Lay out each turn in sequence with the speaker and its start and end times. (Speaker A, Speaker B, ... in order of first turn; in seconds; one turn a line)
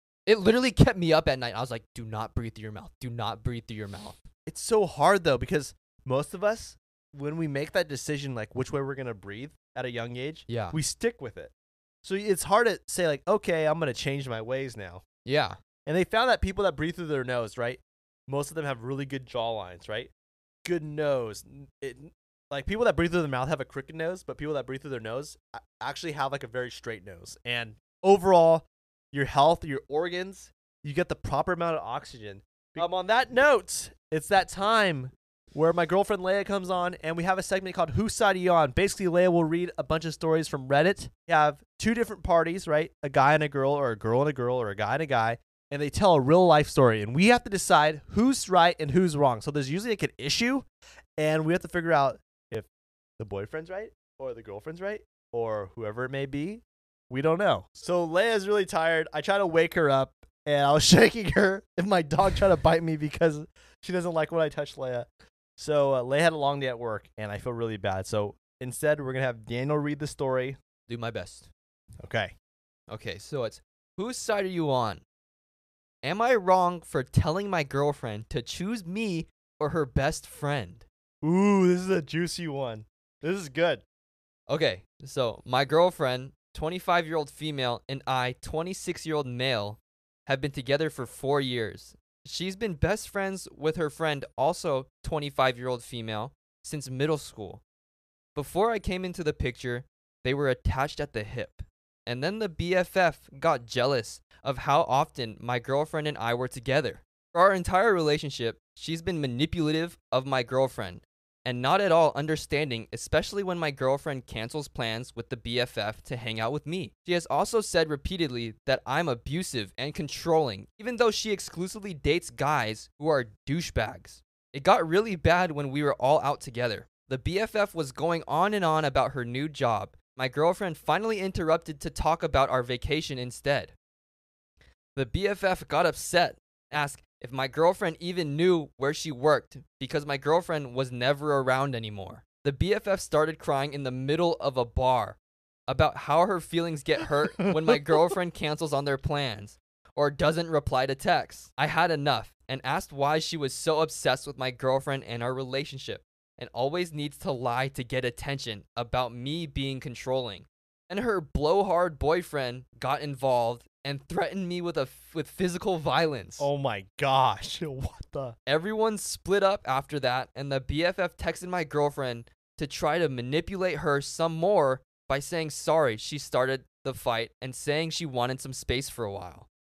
Speaker A: 0.3-4.2
Speaker B: 4.5-15.0
Speaker A: 10.5-10.8
Speaker A: 15.2-15.6
Speaker B: 15.9-20.1
Speaker B: 20.6-50.7
Speaker B: 51.2-52.7
Speaker B: 53.2-65.1
Speaker B: 65.6-70.6
Speaker A: 70.9-71.5
Speaker B: 72.0-72.3
Speaker A: 72.9-75.0
Speaker A: 76.0-80.9
Speaker B: 81.2-83.8
Speaker A: 84.5-97.6
Speaker A: 98.4-133.7
Speaker A: 134.9-166.5
Speaker B: 166.4-168.4
Speaker A: 168.5-179.5